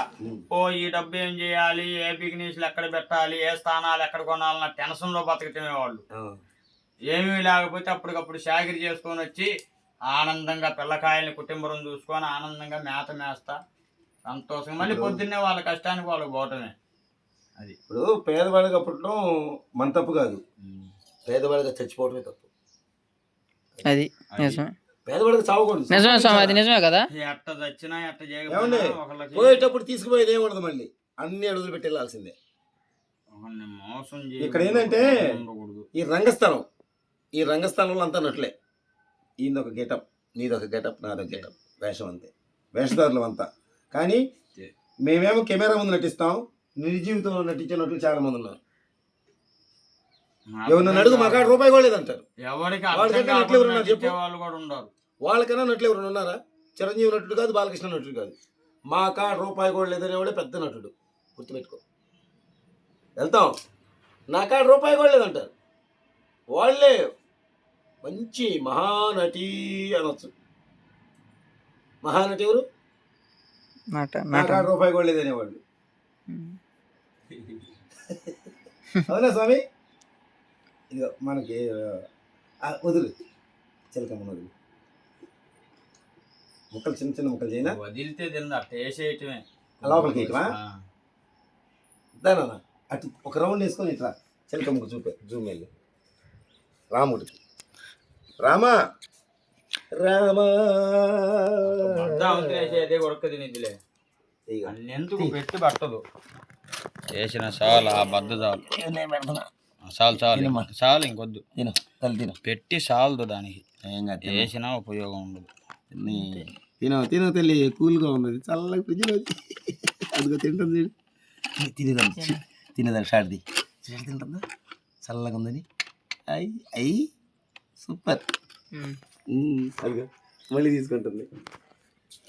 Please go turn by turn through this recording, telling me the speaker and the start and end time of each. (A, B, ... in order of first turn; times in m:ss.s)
0:00.5-0:06.0 A
0:07.1-0:09.5 A
0:10.1-0:13.6 A
0:14.3-0:16.7 A
0:14.8-0:15.2 B
0:17.9-0:19.2 B
0:19.8-0:20.4 B
0:20.6-0:20.9 A
0:21.2-0:22.5 B
0:23.8-0:24.7 C
0:24.3-0:24.6 A
0:25.1-0:26.6 B
0:25.9-0:27.1 C
0:27.1-0:29.7 A
0:28.5-0:32.3 B
0:33.3-0:35.9 A
0:34.4-0:35.4 B
0:35.9-0:36.6 B
0:37.3-0:38.5 B
0:39.4-0:44.2 B
0:45.0-0:48.6 B
0:50.5-0:51.6 A
0:50.7-0:52.2 B
0:52.4-0:54.9 A
0:52.9-0:54.1 B
0:55.2-0:58.4 B
0:58.9-1:01.8 B
1:03.2-1:03.5 B
1:04.3-1:05.5 B
1:06.5-1:07.0 B
1:08.0-1:10.3 B
1:12.0-1:12.6 B
1:13.9-1:14.7 C
1:14.3-1:15.6 B
1:16.3-1:16.5 C
1:17.3-1:17.7 A
1:18.1-1:18.5 B
1:19.0-1:19.6 B
1:20.9-1:22.0 B
1:22.7-1:23.1 B
1:23.9-1:24.5 B
1:26.7-1:27.8 B
1:27.6-1:30.8 A
1:29.8-1:30.5 B
1:32.2-1:35.7 B
1:36.9-1:37.4 B
1:38.4-1:38.7 B
1:39.9-1:42.8 B
1:41.7-1:43.8 A
1:44.5-1:45.4 B
1:44.7-1:46.0 A
1:47.1-1:48.6 A
1:47.7-1:49.5 B
1:49.9-1:51.4 A
1:50.2-1:50.7 B
1:51.6-1:52.4 B
1:52.4-1:53.6 A
1:53.8-1:54.5 B
1:54.2-1:55.5 A
1:55.9-2:00.9 B
1:56.1-1:56.4 C
2:01.6-2:04.4 B
2:05.0-2:05.6 B
2:06.3-2:07.1 B
2:07.8-2:08.2 B
2:09.3-2:11.3 B